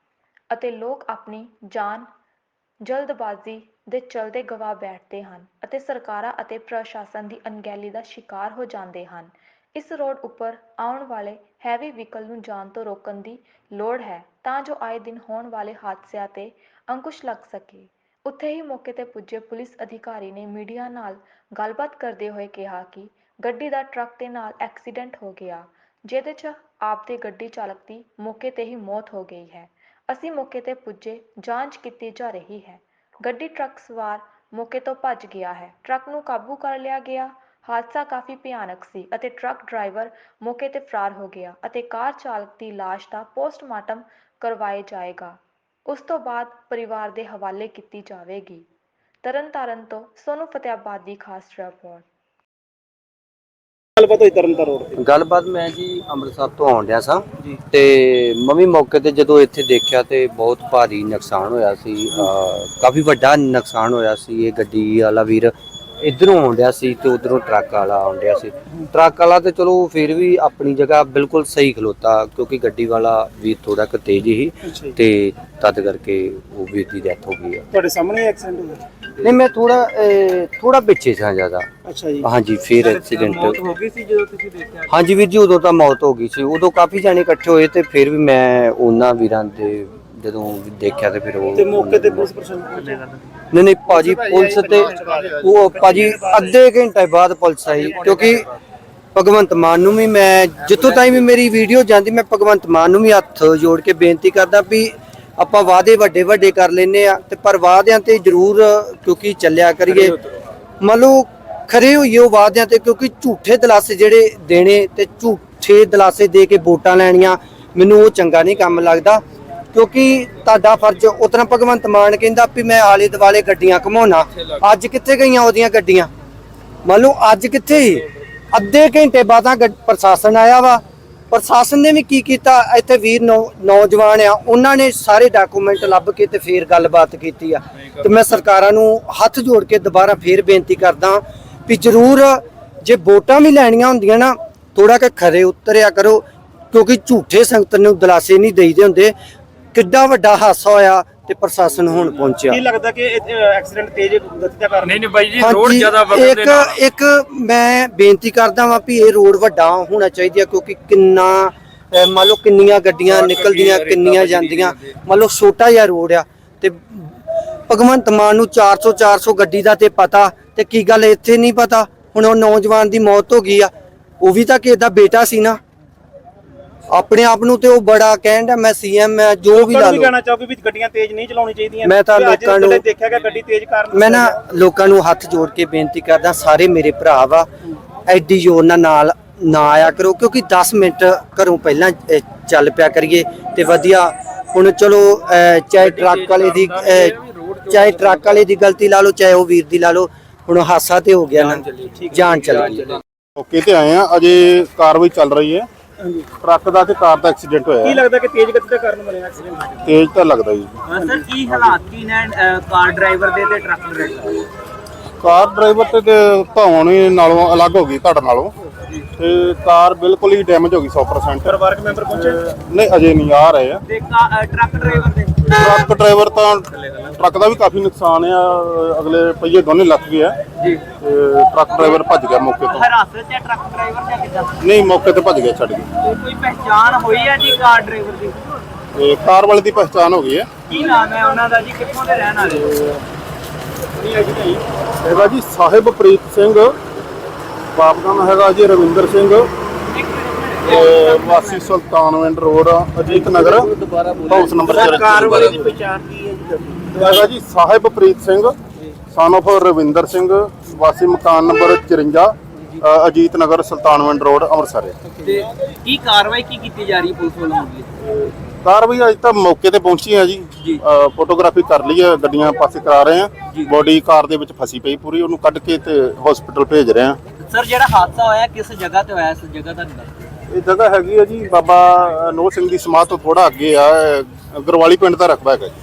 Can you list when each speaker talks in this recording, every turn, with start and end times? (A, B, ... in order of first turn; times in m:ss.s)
0:00.5-0:02.1 A
0:02.8-0:48.7 A
0:49.2-0:52.1 A
0:54.0-0:55.0 B
0:55.0-1:17.6 C
1:14.6-1:14.9 B
1:17.7-1:18.8 B
1:19.2-1:21.7 C
1:21.8-1:22.3 B
1:22.2-1:23.6 C
1:22.8-1:24.9 D
1:24.9-1:32.3 C
1:31.5-1:33.2 B
1:33.5-1:38.5 C
1:34.6-1:35.3 B
1:39.1-1:50.2 C
1:40.7-1:41.2 D
1:50.8-1:59.2 C
1:59.7-2:06.1 C
2:06.8-2:29.1 C
2:29.7-2:32.6 C
2:32.5-2:35.1 B
2:34.9-2:36.7 E
2:35.3-2:47.2 C
2:43.2-2:44.6 E
2:47.7-2:55.6 C
2:56.9-3:00.1 C
2:59.5-3:04.4 B
3:01.8-3:02.8 C
3:03.9-3:07.5 C
3:08.0-3:23.0 C
3:16.0-3:18.1 E
3:22.0-3:22.3 B
3:23.4-3:25.7 F
3:26.0-3:26.3 B
3:26.4-3:28.0 F
3:27.8-3:29.8 B
3:29.8-3:30.8 F
3:30.9-3:34.5 D
3:30.9-3:31.2 B
3:35.2-3:38.5 F
3:39.2-3:41.5 F
3:41.4-3:42.4 B
3:42.1-3:43.8 F
3:43.9-3:45.5 D
3:45.6-3:50.4 F
3:51.0-3:52.9 F
3:51.7-3:52.0 D
3:52.6-3:54.6 D
3:54.6-3:55.9 F
3:56.0-3:58.5 D
3:58.9-4:00.5 F
4:00.7-4:02.9 D
4:04.0-4:04.6 B
4:05.0-4:06.8 F
4:07.7-4:09.5 F
4:09.9-4:11.7 D
4:10.6-4:13.7 F
4:14.0-4:14.4 E
4:14.3-4:15.7 F
4:14.3-4:17.3 B
4:14.7-4:15.4 D
4:17.0-4:18.6 F
4:19.1-4:24.9 F
4:25.2-4:28.1 D
4:28.6-4:37.2 F
4:37.4-4:40.3 D
4:40.5-4:45.7 F